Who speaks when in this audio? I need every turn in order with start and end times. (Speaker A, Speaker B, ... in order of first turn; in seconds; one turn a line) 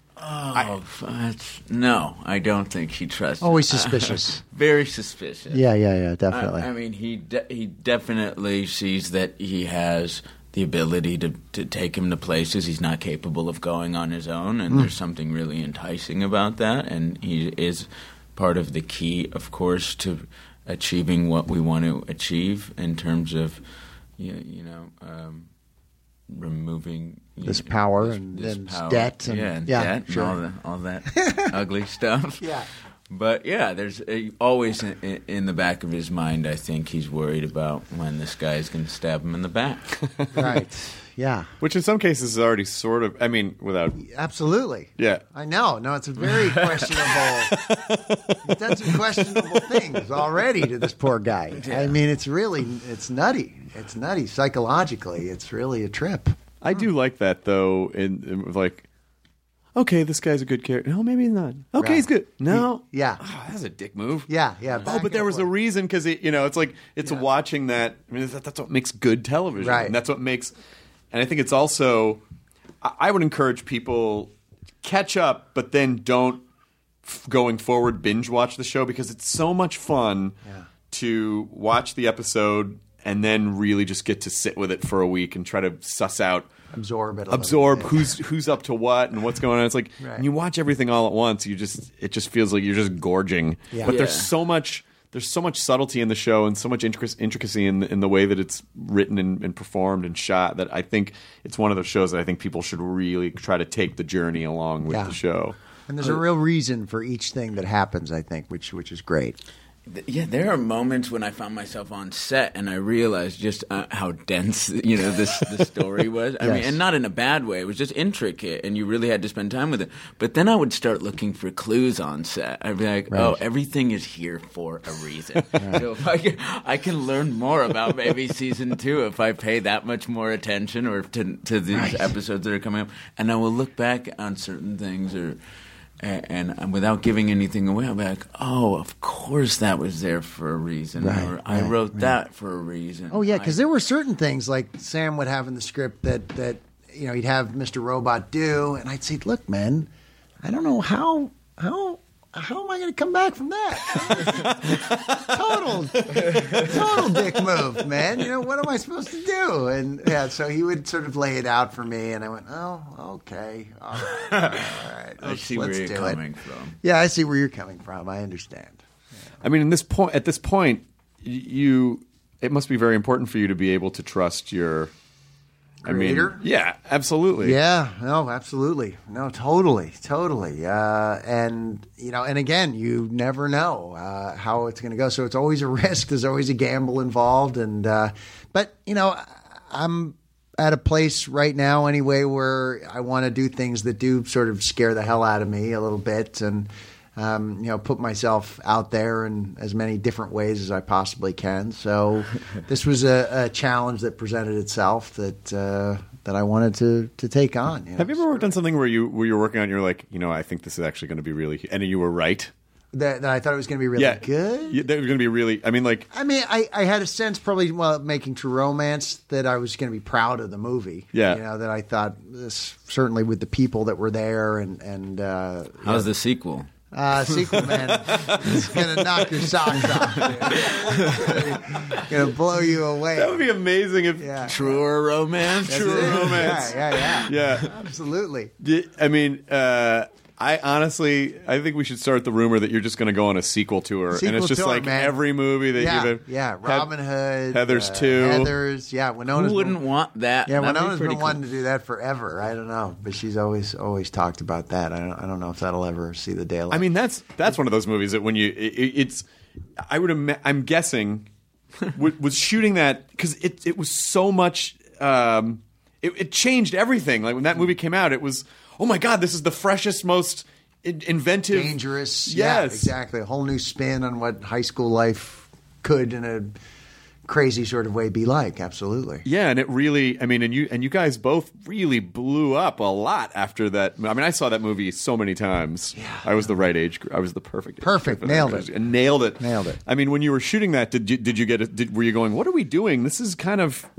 Speaker A: 0.2-5.6
Speaker B: 3.4-4.4
Speaker B: 5.5-6.7
Speaker A: 6.3-23.6
Speaker A: 24.2-25.5
Speaker A: 26.3-32.5
Speaker B: 27.4-30.4
Speaker B: 31.1-31.5
Speaker B: 32.4-32.7
Speaker A: 33.1-39.9
Speaker C: 40.2-40.6
Speaker B: 40.4-41.5
Speaker C: 41.6-44.0
Speaker B: 44.0-47.5
Speaker C: 45.0-45.2
Speaker A: 46.2-47.3
Speaker B: 48.4-56.9
Speaker A: 51.5-52.0
Speaker C: 56.6-58.9
Speaker C: 59.7-64.3
Speaker B: 61.8-63.2
Speaker B: 64.3-65.5
Speaker C: 64.8-70.5
Speaker B: 69.6-70.0
Speaker C: 71.1-72.2
Speaker C: 72.8-74.3
Speaker C: 74.8-76.4
Speaker C: 77.0-80.4
Speaker C: 80.9-86.5
Speaker B: 86.7-88.1
Speaker C: 87.3-105.5
Speaker B: 90.0-90.2
Speaker A: 93.8-94.3
Speaker B: 104.9-105.2
Speaker B: 105.9-109.4
Speaker A: 109.9-135.4
Speaker B: 116.4-116.8
Speaker B: 123.1-123.4
Speaker B: 131.7-132.1
Speaker A: 136.0-143.6
Speaker B: 141.0-142.2
Speaker B: 143.1-149.9
Speaker B: 150.4-166.2
Speaker A: 156.2-156.7
Speaker A: 164.0-166.8
Speaker B: 166.8-168.8
Speaker C: 169.4-174.9
Speaker B: 175.8-176.4
Speaker C: 175.9-177.6
Speaker B: 177.4-208.5
Speaker C: 208.0-212.5
Speaker B: 212.9-214.8
Speaker C: 213.9-216.1
Speaker B: 216.1-226.1
Speaker C: 221.1-221.4
Speaker A: 225.8-226.7
Speaker B: 226.9-233.4
Speaker A: 227.3-228.6
Speaker A: 230.2-231.5
Speaker C: 233.1-234.5
Speaker B: 234.2-234.8
Speaker A: 234.4-237.2
Speaker B: 235.7-238.5
Speaker C: 235.7-237.7
Speaker C: 238.6-246.9
Speaker B: 244.1-245.2
Speaker B: 245.7-249.8
Speaker C: 247.5-248.5
Speaker A: 249.3-251.4
Speaker B: 250.5-256.9
Speaker C: 256.7-259.2
Speaker C: 259.9-261.3
Speaker C: 261.9-272.9
Speaker B: 271.5-276.6
Speaker B: 277.3-279.2
Speaker C: 279.2-293.9
Speaker B: 285.9-286.5
Speaker B: 287.8-288.7
Speaker B: 289.4-289.8